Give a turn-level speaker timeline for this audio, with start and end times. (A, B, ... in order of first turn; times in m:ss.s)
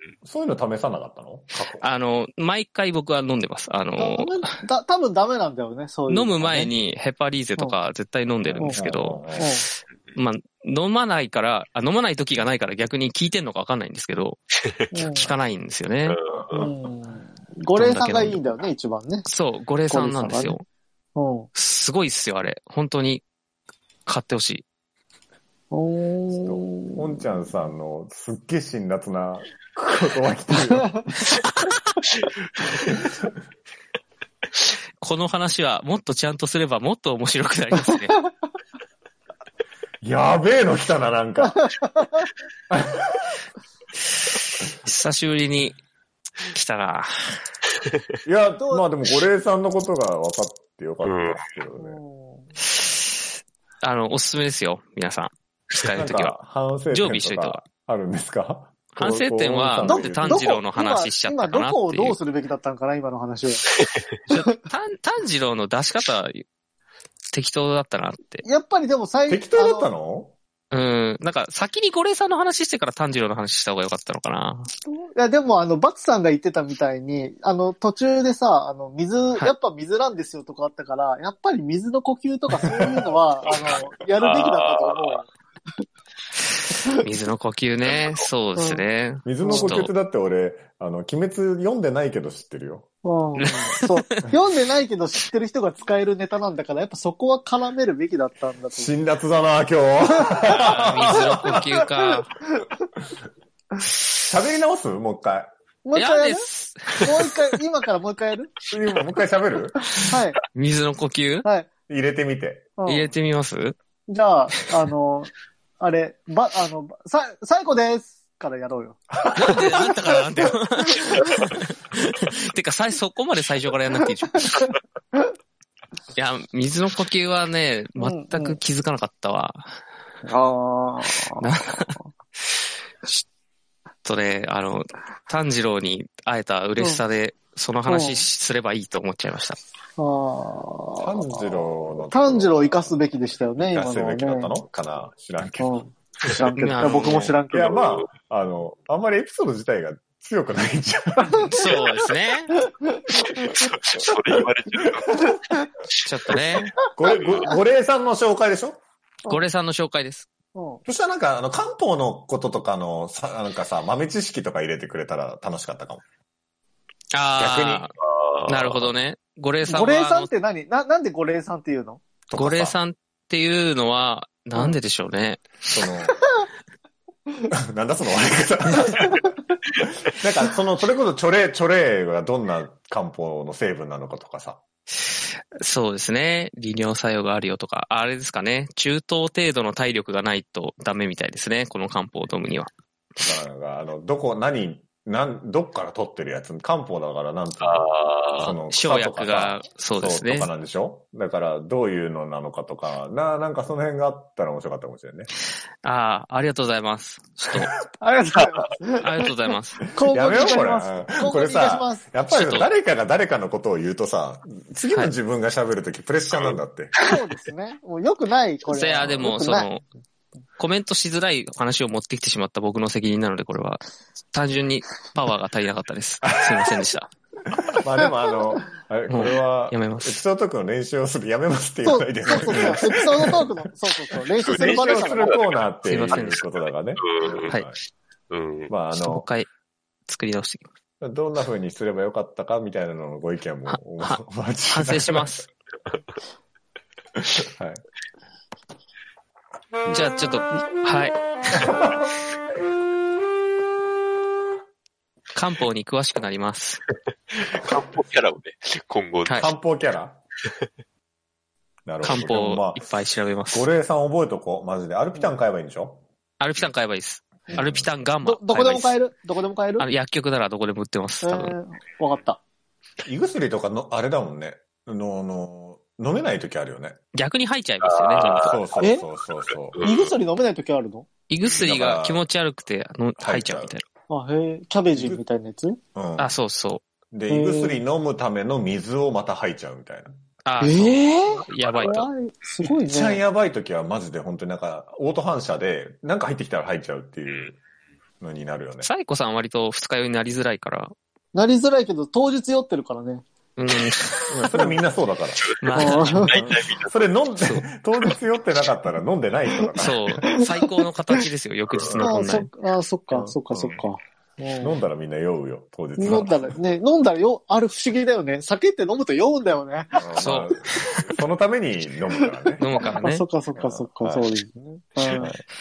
0:00.2-0:01.9 A
0:01.8-0:04.4 B
0:04.0-0:06.7 C
0:06.1-0:09.4 B
0:08.4-0:09.5 A
0:08.6-0:09.7 C
0:10.2-0:14.4 B
0:14.9-0:15.3 C
0:15.0-0:16.2 B
0:16.1-0:16.7 D
0:16.5-0:19.3 C
0:17.8-0:18.5 B
0:19.3-0:20.6 B
0:19.9-0:20.6 C
0:21.2-0:21.5 C
0:21.6-0:23.2 B
0:24.1-0:24.6 B
0:25.7-0:27.3 C
0:26.3-0:31.2 A
0:31.3-0:31.9 B
0:32.9-0:33.3 A
0:35.0-0:38.3 B
0:40.0-0:41.7 A
0:41.4-0:42.3 C
0:42.7-0:43.3 A
0:44.4-0:45.8 B
0:46.4-0:47.4 B
0:48.2-0:52.0 A
0:48.6-0:48.8 C
0:51.0-0:51.4 D
0:51.8-0:52.5 C
0:53.8-0:56.3 B
0:55.9-1:00.6 A
0:56.9-0:57.6 B
0:59.0-1:02.2 B
0:59.8-1:03.7 C
1:04.3-1:06.4 B
1:07.3-1:08.4 B
1:08.4-1:09.9 C
1:09.3-1:10.4 A
1:10.7-1:14.7 B
1:14.9-1:25.3 C
1:23.4-1:25.2 D
1:26.9-1:29.9 B
1:27.9-1:28.2 D
1:28.6-1:28.8 C
1:29.2-1:32.8 A
1:29.4-1:29.8 C
1:33.0-1:39.0 C
1:33.4-1:34.1 B
1:38.7-1:41.8 A
1:40.1-1:40.6 C
1:40.5-1:42.3 B
1:41.1-1:41.6 C
1:44.2-1:45.5 A
1:45.8-1:46.5 C
1:46.0-1:47.4 B
1:47.0-1:48.6 C
1:48.7-1:49.9 A
1:49.9-1:50.4 C
1:50.5-1:51.5 B
1:51.9-1:52.7 A
1:52.8-1:53.1 C
1:52.9-1:53.8 B
1:54.1-2:01.1 C
1:59.2-1:59.7 A
1:59.3-2:04.7 B
2:06.2-2:09.8 B
2:08.0-2:08.6 C
2:10.3-2:12.0 C
2:11.3-2:12.0 B
2:14.0-2:19.6 B
2:16.8-2:17.0 C
2:17.9-2:18.3 C
2:20.0-2:24.6 C
2:21.0-2:23.0 A
2:23.6-2:25.8 A
2:25.6-2:27.8 C
2:26.6-2:27.4 B
2:27.5-2:31.6 A
2:31.2-2:31.8 C
2:31.5-2:32.5 B
2:32.6-2:33.5 C
2:33.3-2:35.2 D
2:36.0-2:36.8 B
2:37.0-2:38.8 A
2:39.3-2:40.3 B
2:40.6-2:40.8 C
2:40.9-2:46.0 A
2:47.1-2:47.9 B
2:47.4-2:47.9 A
2:48.0-2:48.9 D
2:48.5-2:50.3 B
2:49.6-2:52.0 C
2:52.3-2:52.8 A
2:52.4-2:55.6 B
2:55.7-2:56.2 A
2:57.5-3:04.6 A
3:05.6-3:12.7 B
3:13.2-3:25.3 A
3:17.6-3:18.5 D
3:18.6-3:20.5 B
3:25.8-3:27.7 B
3:28.0-3:32.1 C
3:29.0-3:29.8 B
3:30.0-3:37.0 A
3:32.3-3:32.7 B
3:37.0-3:39.7 C
3:38.7-3:39.8 B
3:40.6-3:47.1 B
3:46.2-3:46.9 A
3:47.5-3:53.5 A
3:49.1-3:50.2 B
3:51.8-3:55.4 C
3:54.4-3:55.6 D
3:54.5-3:57.8 A
3:55.8-3:56.4 B
3:57.0-3:57.6 D
3:58.3-3:58.7 D
3:58.7-3:59.3 A
3:58.9-3:59.5 B
4:00.1-4:00.7 B
4:01.0-4:05.3 A
4:03.7-4:05.5 B
4:07.2-4:07.8 A
4:09.9-4:11.7 B
4:11.6-4:12.0 A
4:15.3-4:16.8 B
4:17.3-4:19.5 D
4:19.4-4:20.2 A
4:21.9-4:23.0 A
4:22.0-4:23.7 B
4:23.5-4:26.0 A
4:26.4-4:29.0 B
4:27.5-4:27.9 A
4:28.2-4:29.9 C
4:29.8-4:31.6 B
4:31.2-4:32.4 C
4:33.0-4:37.0 A
4:37.1-4:38.6 B
4:37.8-4:38.6 D
4:38.4-4:39.8 A
4:38.8-4:39.1 C
4:39.7-4:40.2 D
4:39.8-4:41.1 C
4:41.3-4:43.8 B
4:41.4-4:42.2 A
4:43.2-4:43.8 A
4:44.1-4:45.8 C
4:44.9-4:45.2 A
4:46.0-4:46.4 A
4:46.2-4:46.8 B
4:47.1-4:50.1 A
4:47.3-4:47.8 C
4:50.4-4:52.1 B
4:50.6-4:53.2 C
4:52.6-4:57.6 A
4:58.2-4:58.9 A
4:58.8-5:00.9 B
5:01.3-5:03.2 C
5:03.6-5:04.5 B
5:04.3-5:10.2 A
5:04.5-5:04.8 C
5:05.6-5:06.4 B
5:05.7-5:07.3 D
5:05.8-5:06.4 C
5:07.4-5:07.7 B
5:09.7-5:11.2 C
5:09.8-5:12.5 B
5:11.8-5:12.1 D
5:12.0-5:14.8 C
5:13.2-5:13.8 B
5:14.6-5:16.6 A
5:16.0-5:21.0 C
5:20.0-5:22.7 A
5:20.2-5:20.6 B
5:22.3-5:25.4 C
5:22.6-5:23.2 B
5:23.6-5:24.3 A
5:25.1-5:25.4 A